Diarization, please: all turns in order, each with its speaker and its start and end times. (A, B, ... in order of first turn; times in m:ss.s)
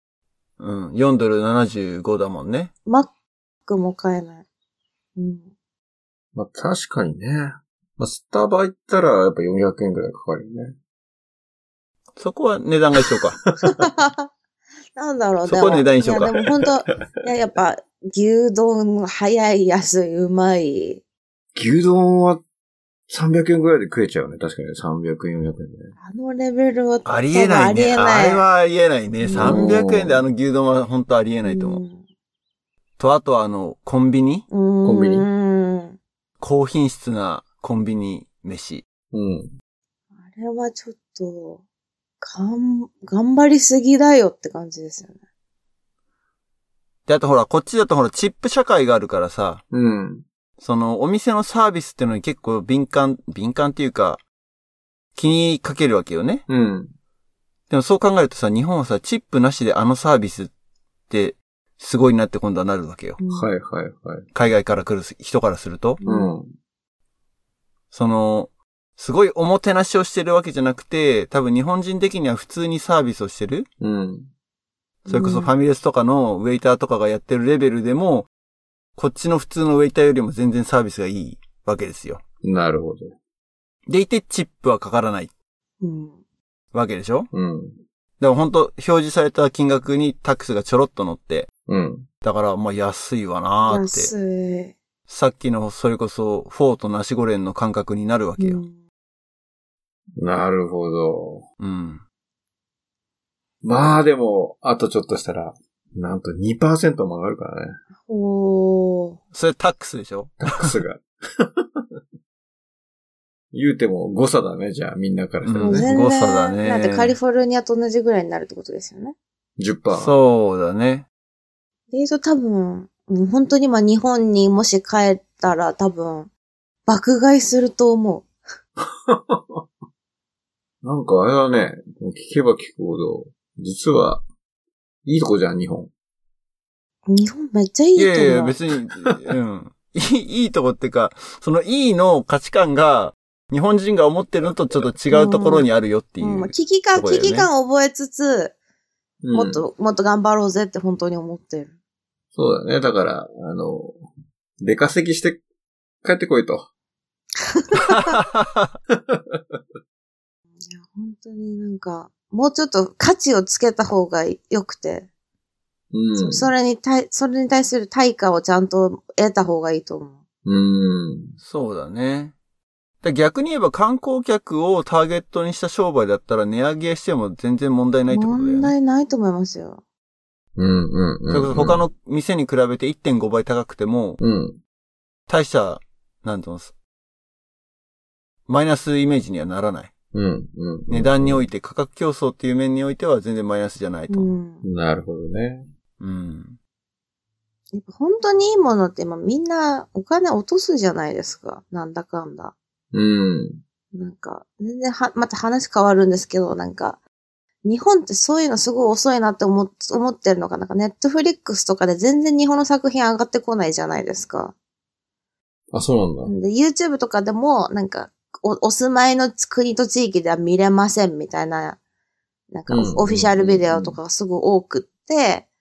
0:00.6-0:02.7 A
0:03.6-0:04.4 B
0:05.2-0:05.5 B
0:06.3-0:10.8 C
0:12.2-0:13.4 A
0:13.0-0:13.4 C
0:13.6-0:14.3 B
0:14.9-0:21.0 B
0:15.4-0:16.3 A
0:21.5-0:22.4 C
0:23.1-0:25.9 C
0:26.0-0:28.4 B
0:27.0-0:31.8 A
0:29.2-0:29.7 B
0:29.3-0:30.2 C
0:31.4-0:32.0 B
0:33.0-0:34.4 A
0:34.5-0:36.0 B
0:34.8-0:35.2 C
0:36.4-0:38.8 A
0:39.1-0:39.6 C
0:40.3-0:41.6 B
0:42.2-0:45.1 B
0:47.0-0:49.6 A
0:49.7-0:50.2 C
0:50.6-0:54.2 A
0:55.1-0:56.4 A
0:56.5-0:56.9 C
0:57.7-1:00.5 A
1:01.1-1:03.2 A
1:03.2-1:03.5 B
1:03.3-1:04.3 C
1:04.3-1:06.0 A
1:06.0-1:06.3 B
1:06.0-1:06.5 C
1:07.9-1:13.7 A
1:13.8-1:14.3 C
1:15.0-1:15.5 B
1:15.1-1:18.3 A
1:19.0-1:22.2 A
1:22.4-1:23.1 C
1:23.9-1:25.3 A
1:25.8-1:26.2 B
1:26.7-1:27.3 A
1:27.3-1:27.8 C
1:28.2-1:31.5 A
1:31.7-1:32.1 C
1:32.2-1:34.1 A
1:33.6-1:34.8 B
1:35.1-1:38.6 A
1:38.4-1:38.7 B
1:40.2-1:41.4 C
1:41.6-1:42.0 A
1:43.6-1:47.8 C
1:48.0-1:49.2 B
1:49.3-1:50.7 A
1:50.4-1:51.8 C
1:53.5-1:55.9 C
1:55.4-1:57.2 A
1:55.6-1:59.1 B
1:59.6-2:00.1 C
1:59.9-2:01.0 A
2:01.9-2:06.3 B
2:06.8-2:08.3 B
2:08.8-2:09.6 C
2:10.8-2:14.2 C
2:15.0-2:15.9 C
2:17.0-2:18.6 B
2:18.0-2:27.5 A
2:25.1-2:25.7 B
2:26.2-2:28.5 B
2:29.2-2:29.6 C
2:29.3-2:31.7 B
2:32.3-2:34.0 C
2:34.6-2:35.4 C
2:36.0-2:36.7 C
2:37.5-2:38.2 B
2:37.9-2:38.7 A
2:39.0-2:39.6 C
2:40.6-2:45.1 B
2:45.9-2:46.5 C
2:46.1-2:50.2 B
2:50.4-2:51.4 C
2:51.4-2:52.3 A
2:53.0-2:58.7 A
2:58.1-2:59.8 B
3:00.6-3:01.8 C
3:01.3-3:04.2 A
3:04.2-3:04.6 C
3:05.3-3:06.7 A
3:08.5-3:09.9 A
3:10.1-3:11.5 C
3:10.9-3:14.3 A
3:14.1-3:14.6 B
3:14.6-3:15.7 C
3:16.0-3:16.6 A
3:17.7-3:22.5 B
3:22.9-3:23.6 C
3:23.9-3:27.0 B
3:27.6-3:34.5 B
3:35.7-3:36.3 C
3:36.2-3:41.8 B
3:42.5-3:45.4 B
3:42.7-3:44.0 C